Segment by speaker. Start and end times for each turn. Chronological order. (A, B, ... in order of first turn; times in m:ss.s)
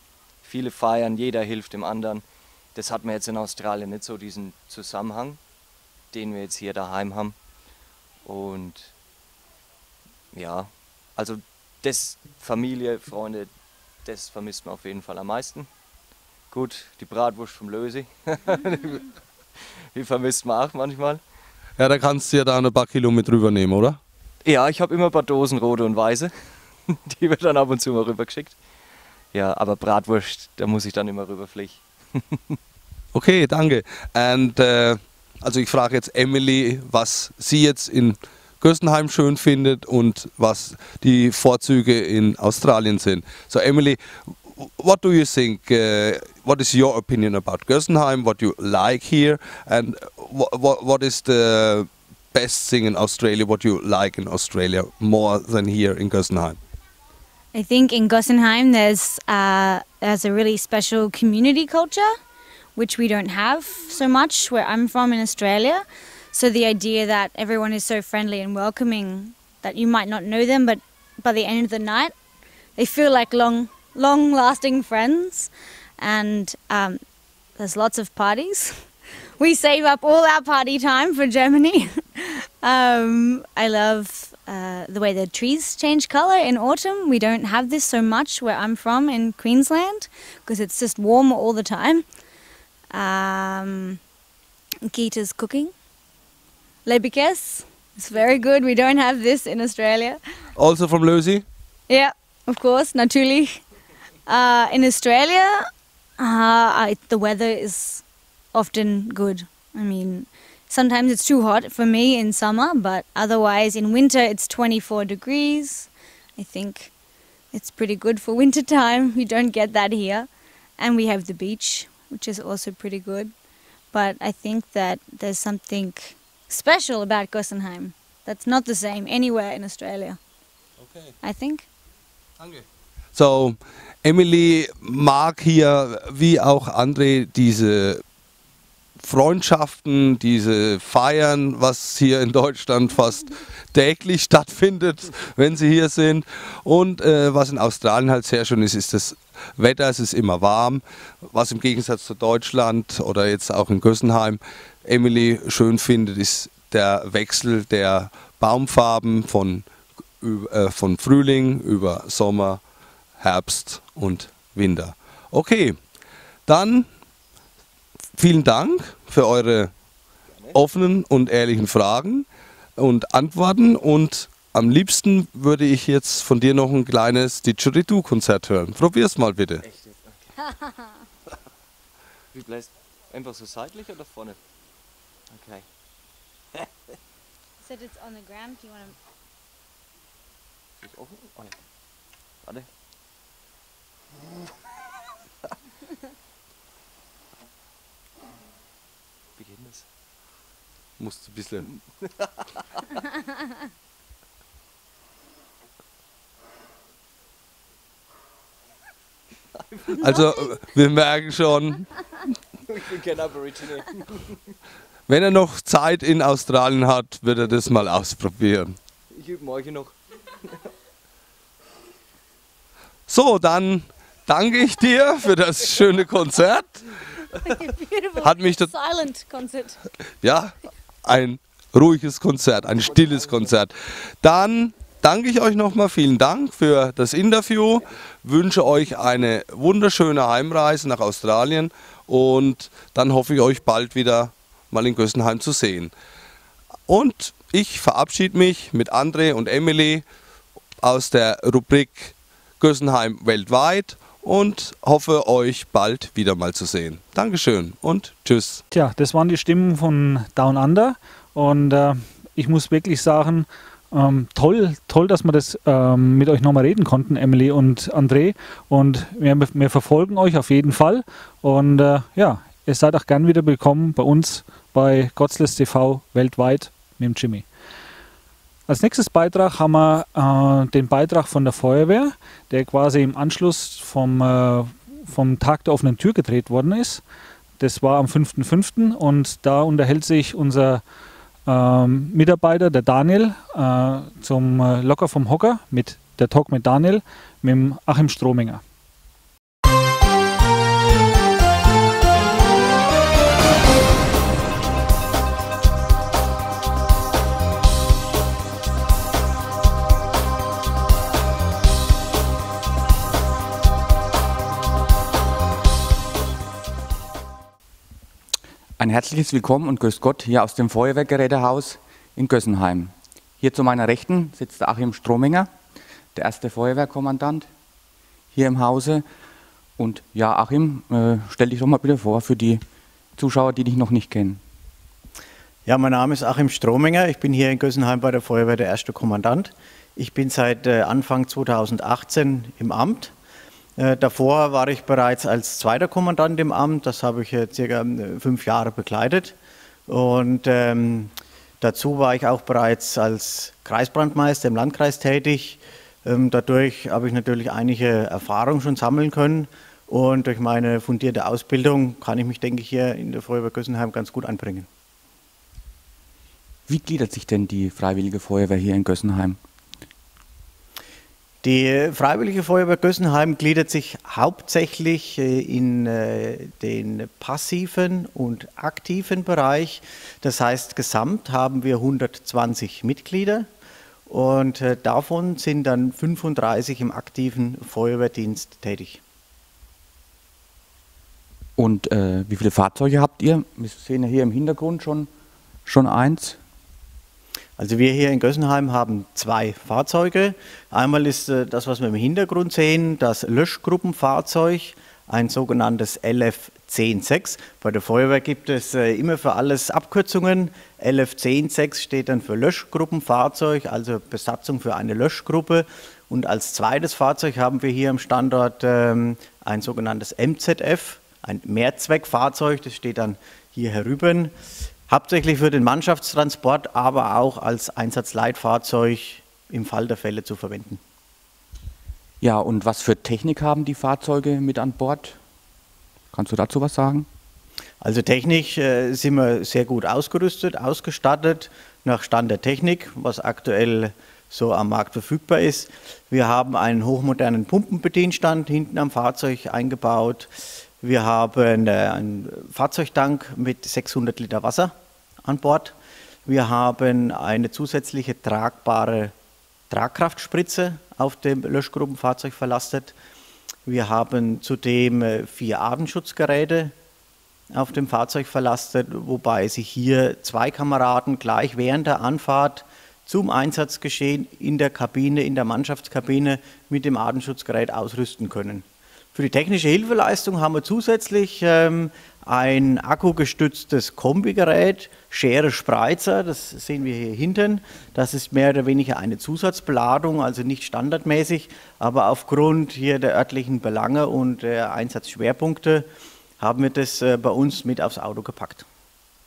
0:00.4-0:05.4 A
0:06.1-0:07.4 A
0:08.2-0:09.0 A
0:10.3-0:13.5 A
0:14.0-0:15.7 A
0:16.5-0:21.2 A
0:21.8-0:24.0 B
0:24.4-0:26.3 A
0:26.8-0:28.6 A
0:29.3-0:32.6 A
0:33.1-0:56.6 B
0:57.5-1:02.1 C
1:02.8-1:12.1 C
1:12.8-1:17.0 C
1:17.6-1:18.8 C
1:19.4-1:32.0 C
1:32.9-1:34.0 C
1:34.8-1:35.7 C
1:36.8-1:40.2 C
1:40.6-1:41.4 B
1:41.9-1:43.6 C
1:44.2-1:45.7 C
1:46.2-1:48.0 C
1:48.5-1:56.9 C
1:57.5-2:03.3 C
2:03.9-2:10.2 C
2:11.2-2:11.6 C
2:13.1-2:18.0 B
2:19.0-2:39.7 B
2:40.2-2:42.6 B
2:43.2-2:45.8 B
2:46.4-2:46.9 B
2:48.2-2:49.7 B
2:50.5-2:59.6 B
2:59.6-3:00.3 A
3:02.3-3:04.4 A
3:05.3-3:05.7 A
3:07.6-3:09.0 C
3:10.8-3:11.6 A
3:12.4-3:12.7 A
3:19.4-3:19.9 A
3:21.0-3:21.7 B
3:21.6-3:22.5 A
3:29.6-3:30.1 A
3:29.9-3:31.9 B
3:32.7-3:34.5 A
3:35.1-3:38.8 B
3:39.1-3:40.7 A
3:43.1-3:47.0 B
3:47.6-3:49.8 C
3:48.2-3:48.7 B
3:50.2-4:05.9 B
4:06.9-4:10.0 B
4:10.8-4:18.6 B
4:18.7-4:37.4 D
4:38.7-4:47.0 D
4:47.6-4:50.8 D
4:51.4-4:58.6 D
5:18.8-5:25.5 E
5:26.1-5:27.5 E
5:28.3-5:29.0 E
5:29.8-5:32.6 E
5:33.2-5:34.4 E
5:35.6-5:43.1 F
5:43.8-5:49.3 F
5:49.9-6:04.7 F
6:06.7-6:09.4 E
6:11.4-6:23.5 F
6:24.1-6:29.0 F
6:31.6-6:35.1 E
6:35.6-6:36.4 E
6:37.6-7:04.3 F
7:04.9-7:10.8 F
7:12.2-7:15.2 E
7:16.1-7:17.1 E
7:17.8-7:35.7 F
7:36.2-7:39.1 F
7:39.7-7:42.9 F
7:43.6-7:46.7 F
7:47.5-8:15.9 F
8:16.4-8:18.6 F